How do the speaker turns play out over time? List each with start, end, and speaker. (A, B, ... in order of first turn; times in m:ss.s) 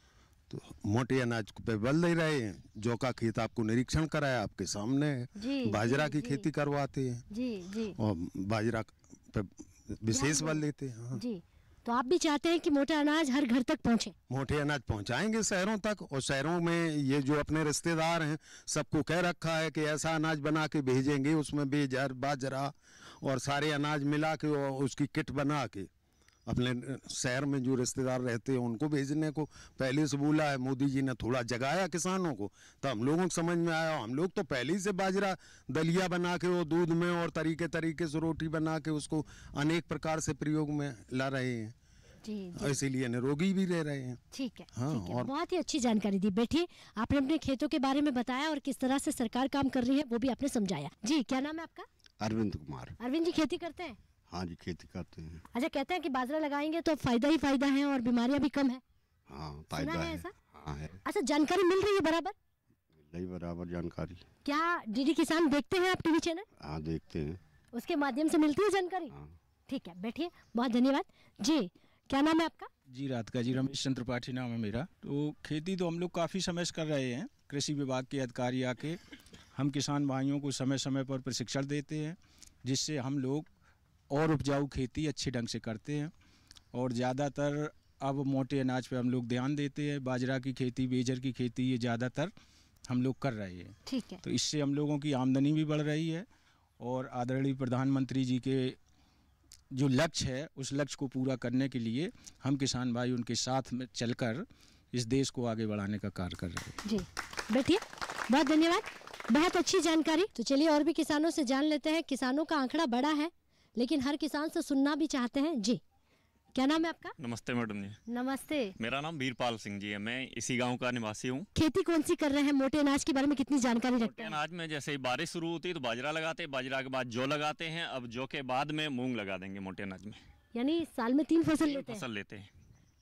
0:00.5-0:07.2 A
0:05.4-0:06.4 B
0:07.3-0:08.0 B
0:08.0-0:11.2 A
0:10.1-0:10.6 B
0:11.1-0:14.1 B
0:14.3-0:25.9 A
0:26.4-0:41.7 A
0:42.2-0:42.8 B
0:42.6-0:44.2 A
0:44.3-0:51.9 B
0:44.7-0:45.3 A
0:52.2-0:53.0 C
0:53.0-0:54.0 B
0:54.3-0:55.4 C
0:55.5-0:58.8 B
0:59.3-1:01.0 C
0:59.7-1:00.3 B
1:01.0-1:02.3 B
1:02.9-1:04.2 C
1:04.4-1:06.4 B
1:06.6-1:07.4 C
1:07.7-1:09.1 B
1:09.1-1:09.3 C
1:09.7-1:12.7 B
1:12.9-1:19.0 D
1:19.5-1:23.5 D
1:24.1-1:26.1 D
1:26.7-1:32.3 D
1:32.9-1:36.2 D
1:33.8-1:34.2 B
1:36.8-1:38.8 D
1:39.7-1:46.8 D
1:46.8-1:55.8 B
1:56.5-1:57.1 B
1:57.2-1:58.0 E
1:58.1-1:58.7 B
1:58.8-2:01.4 E
2:01.5-2:04.4 B
2:04.0-2:10.2 E
2:10.5-2:12.0 B
2:11.6-2:12.5 E